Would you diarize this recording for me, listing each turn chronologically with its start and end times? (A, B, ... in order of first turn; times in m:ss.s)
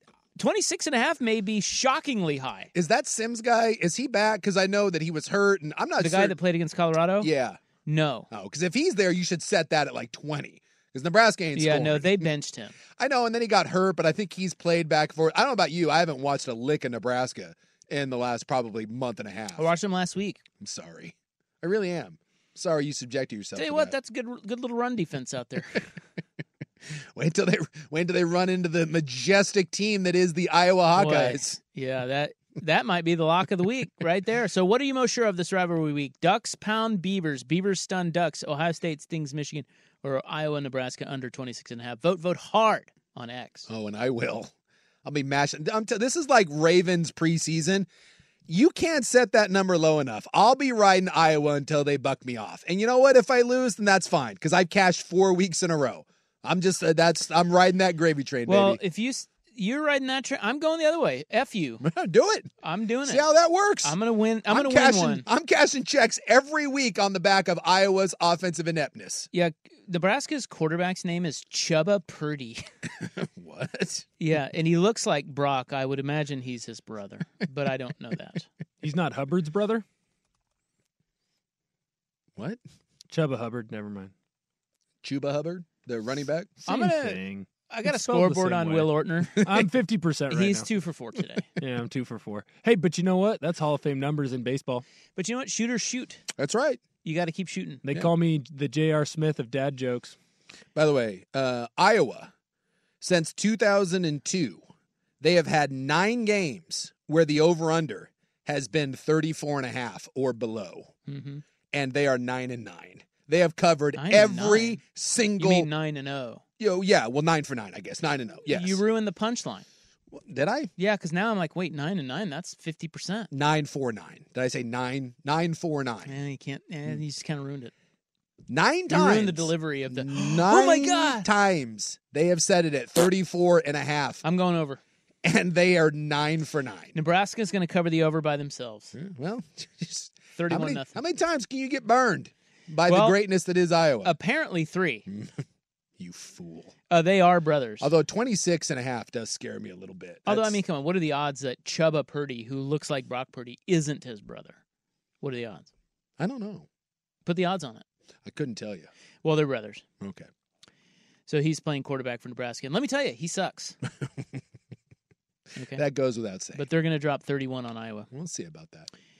0:00.4-0:02.7 A
0:02.7-0:06.3 B
0:06.0-0:07.3 A
0:07.2-0:07.6 B
0:07.8-0:08.3 A
0:08.3-0:12.3 B
0:11.5-0:12.7 A
0:13.0-0:19.7 B
0:19.6-0:20.4 A
0:20.6-0:23.9 B
0:23.6-0:25.8 A
0:27.1-0:31.6 B
0:30.9-0:43.7 A
0:43.7-0:44.5 B
0:45.0-0:47.9 B
0:48.5-0:58.8 B
0:58.4-1:01.8 A
1:01.8-1:02.5 B
1:02.6-1:03.2 A
1:03.0-1:04.0 B
1:03.8-1:05.2 A
1:04.5-1:09.3 B
1:09.3-1:12.6 A
1:13.0-1:14.0 B
1:14.2-1:18.5 A
1:18.8-1:19.8 C
1:23.1-1:24.1 C
1:25.0-1:26.6 B
1:26.6-1:30.7 C
1:26.6-1:29.4 A
1:30.3-1:31.5 A
1:31.6-1:34.8 C
1:35.2-1:36.2 A
1:36.4-1:36.8 B
1:37.0-1:37.8 A
1:37.8-1:40.1 C
1:40.7-1:42.3 B
1:43.0-1:44.6 B
1:45.2-1:50.9 B
1:51.1-1:51.4 A
1:51.7-1:55.7 B
1:53.9-1:54.8 A
1:55.4-1:56.4 A
1:56.6-1:58.8 B
1:58.5-1:59.6 A
2:00.1-2:00.7 B
2:00.8-2:03.3 A
2:03.3-2:06.1 B
2:06.0-2:07.7 A
2:08.5-2:14.2 B
2:08.9-2:11.3 A
2:14.2-2:14.8 A
2:15.2-2:16.9 B
2:16.9-2:18.9 A
2:18.9-2:24.1 B
2:20.4-2:21.0 A
2:22.9-2:23.2 A
2:24.0-2:25.0 A
2:25.1-2:25.4 B
2:26.0-2:26.7 B
2:26.9-2:27.9 A
2:27.8-2:30.6 B
2:30.2-2:34.6 A
2:35.2-2:35.7 A
2:36.2-2:36.7 B
2:37.2-2:37.8 A
2:38.2-2:38.9 B
2:39.2-2:39.8 A
2:40.0-2:40.3 B
2:41.3-2:43.8 A
2:45.6-2:45.8 A
2:45.7-2:46.6 B
2:46.5-2:48.1 A
2:48.1-2:48.9 B